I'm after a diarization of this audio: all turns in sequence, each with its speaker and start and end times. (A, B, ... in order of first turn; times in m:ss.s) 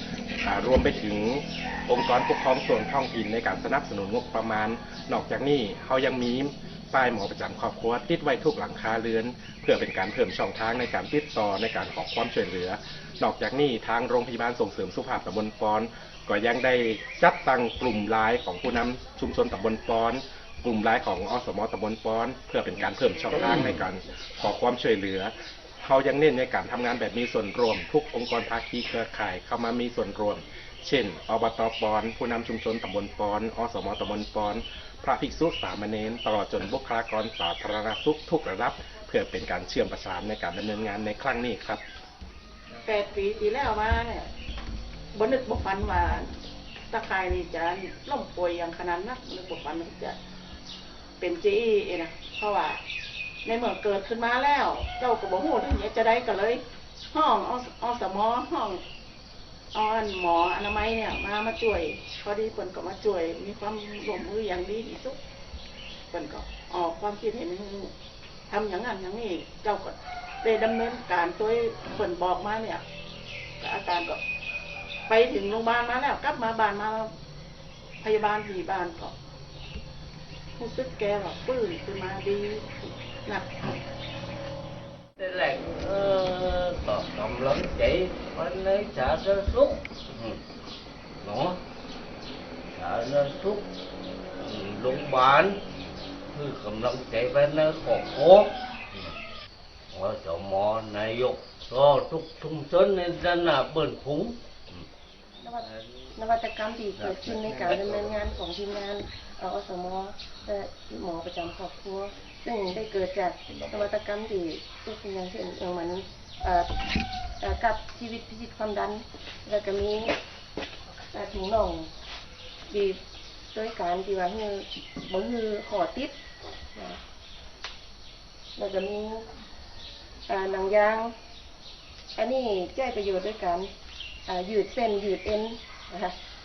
0:00.4-0:41.8 A
0:42.8-0:44.3 B
0:45.1-0:46.3 B
0:46.9-0:50.2 B
0:51.2-0:52.8 B
0:53.4-0:58.8 B
0:59.7-1:05.2 B
1:06.1-1:07.9 B
1:08.5-1:12.8 B
1:13.6-1:14.2 B
1:15.1-1:17.1 B
1:18.0-1:19.2 B
1:20.6-1:22.7 B
1:25.2-1:30.4 C
1:31.2-1:31.6 C
1:32.7-1:33.7 C
1:34.4-1:35.6 C
1:36.3-1:39.2 C
1:39.9-1:44.9 C
1:45.4-1:56.7 D
1:45.6-1:45.9 C
1:47.0-1:47.6 C
1:57.4-2:00.1 D
2:01.1-2:01.9 D
2:02.7-2:03.0 D
2:03.5-2:06.2 D
2:06.7-2:07.0 D
2:08.6-2:09.3 D
2:10.3-2:11.1 D
2:12.2-2:13.7 D
2:14.3-2:16.2 D